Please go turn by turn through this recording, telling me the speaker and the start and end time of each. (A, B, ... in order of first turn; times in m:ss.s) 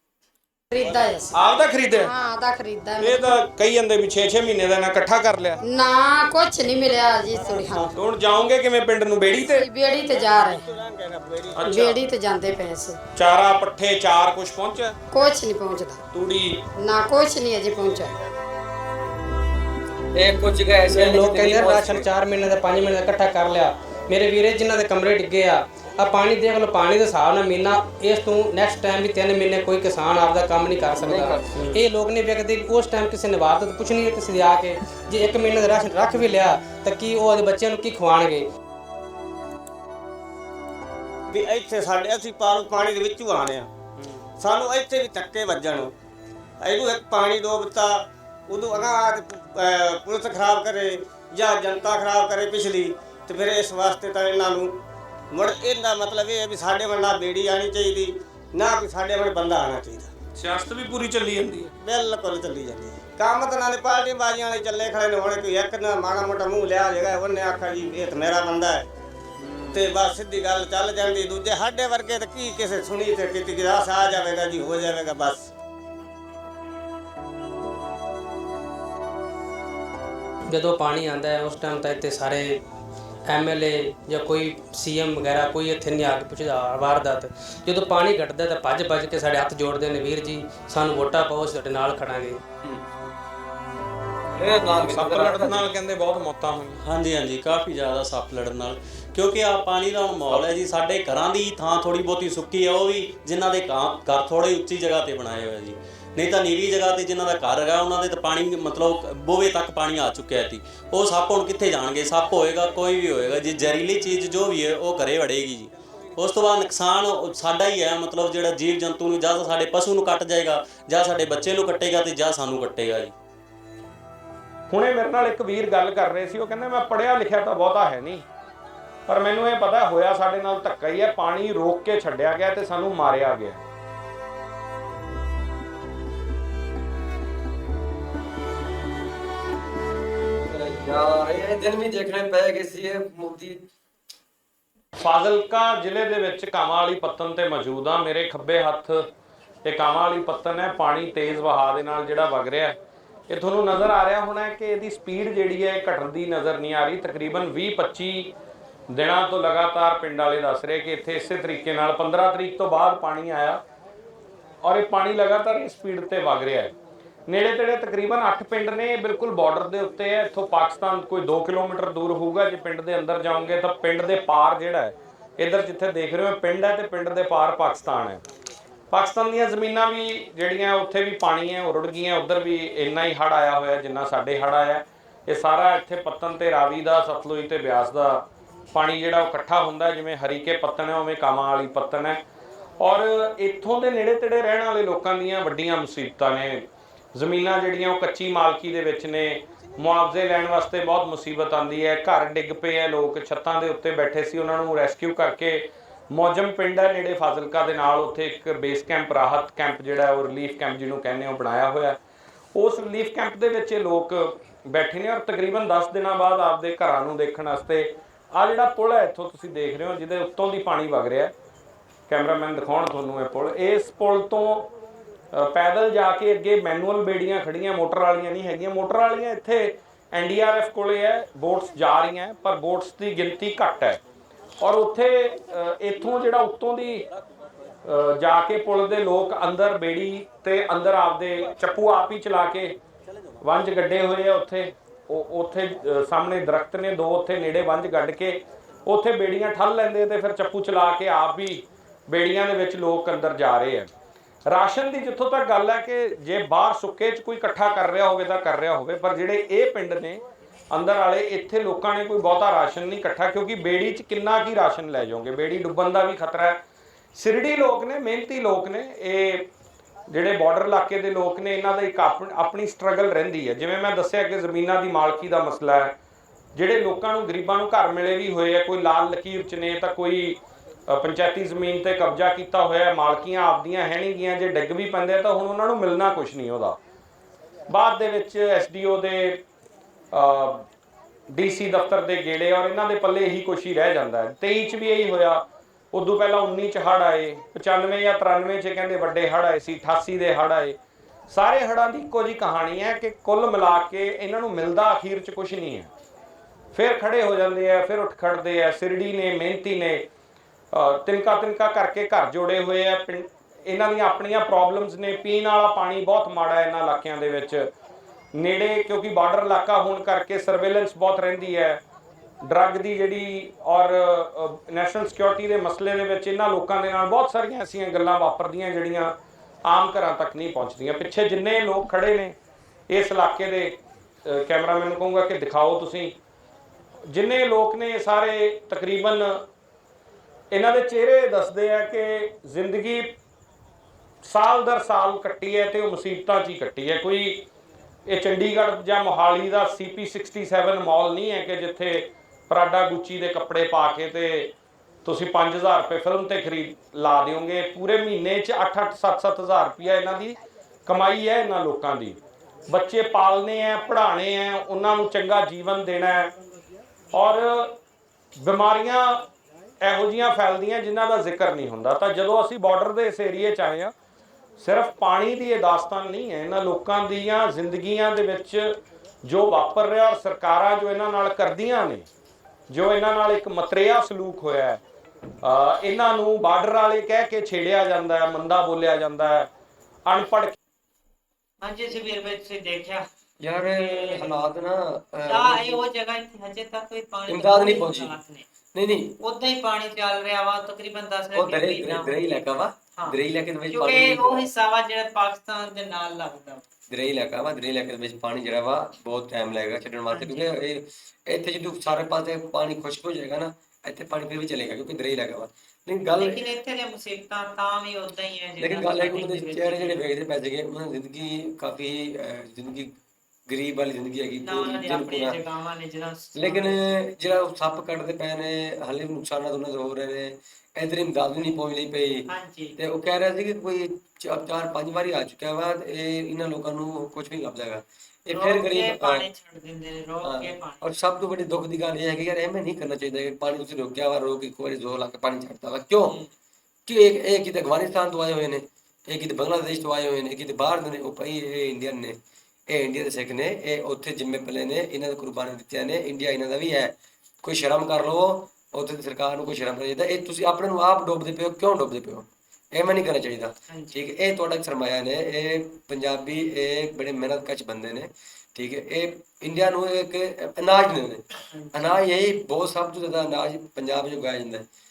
0:00.7-0:01.4 A
0:01.3-0:02.1 B
0:01.9-0:03.3 A
0:03.0-0:05.6 B
0:05.6-0:08.0 A
0:07.3-0:07.9 C
0:08.0-0:09.7 B
0:09.4-0:12.0 C
0:09.5-0:10.6 A
0:11.6-0:11.9 B
0:11.6-0:13.0 A
0:13.2-0:15.0 B
0:15.1-0:16.0 A
0:16.1-0:16.6 B
0:16.8-0:18.2 A
0:17.6-0:18.4 C
0:20.1-0:22.1 D
0:20.9-0:38.4 E
0:30.9-0:31.5 D
0:41.3-0:43.7 C
0:44.4-0:45.9 C
0:46.6-0:54.7 C
0:55.3-1:00.1 C
1:00.4-1:01.8 B
1:01.8-1:08.9 C
1:09.6-1:15.4 C
1:20.5-1:22.6 E
1:23.3-1:32.4 E
1:34.3-1:35.6 D
1:34.9-1:36.8 B
1:36.8-2:03.1 F
2:04.7-2:08.2 B
2:09.1-2:13.6 B
2:20.5-2:23.7 D
2:25.0-2:29.1 B
2:29.6-2:32.8 B
2:33.3-2:38.3 B
2:38.9-2:43.6 B
2:44.6-2:46.7 B
2:47.3-2:58.2 B
2:58.9-3:12.2 B
3:12.8-3:32.0 B
3:32.6-3:41.3 B
3:42.1-3:44.7 B
3:45.3-3:54.0 B
3:54.6-3:57.1 B
3:57.8-4:02.8 B
4:03.4-4:13.9 B
4:14.5-4:26.6 B
4:27.1-4:29.5 B
4:30.1-4:36.0 B
4:36.6-4:46.8 B
4:47.7-4:49.4 B
4:50.1-4:50.7 B
4:51.3-5:00.8 B
5:01.3-5:05.9 B
5:06.7-5:10.1 B
5:10.7-5:17.7 B
5:18.4-5:21.8 B
5:22.4-5:32.4 B
5:32.9-5:36.2 B
5:37.1-5:39.5 B
5:40.5-5:43.2 B
5:44.2-5:47.5 B
5:48.1-5:54.5 B
5:55.0-6:02.2 B
6:02.7-6:06.3 B
6:07.1-6:07.8 B
6:08.4-6:09.3 B
6:09.8-6:13.9 B
6:14.6-6:22.1 B
6:22.7-6:24.8 B
6:25.4-6:29.5 B
6:30.1-6:30.6 B
6:31.6-6:33.1 G
6:33.4-6:35.8 D
6:33.7-6:34.3 G
6:35.3-6:38.5 G
6:37.3-6:38.2 D
6:38.7-6:39.2 D
6:39.2-6:42.4 G
6:41.4-6:44.5 D
6:42.9-6:46.6 G
6:46.9-6:56.4 D
6:50.1-6:50.5 G
6:56.1-7:00.0 G
6:58.6-7:02.9 D
7:03.5-7:05.4 D
7:04.4-7:06.8 G
7:06.4-7:19.3 D
7:12.3-7:12.8 G
7:18.3-7:20.8 G
7:20.2-7:26.2 D
7:26.9-7:32.2 D
7:32.7-7:54.6 D
7:43.7-7:44.1 G
7:51.5-7:52.0 G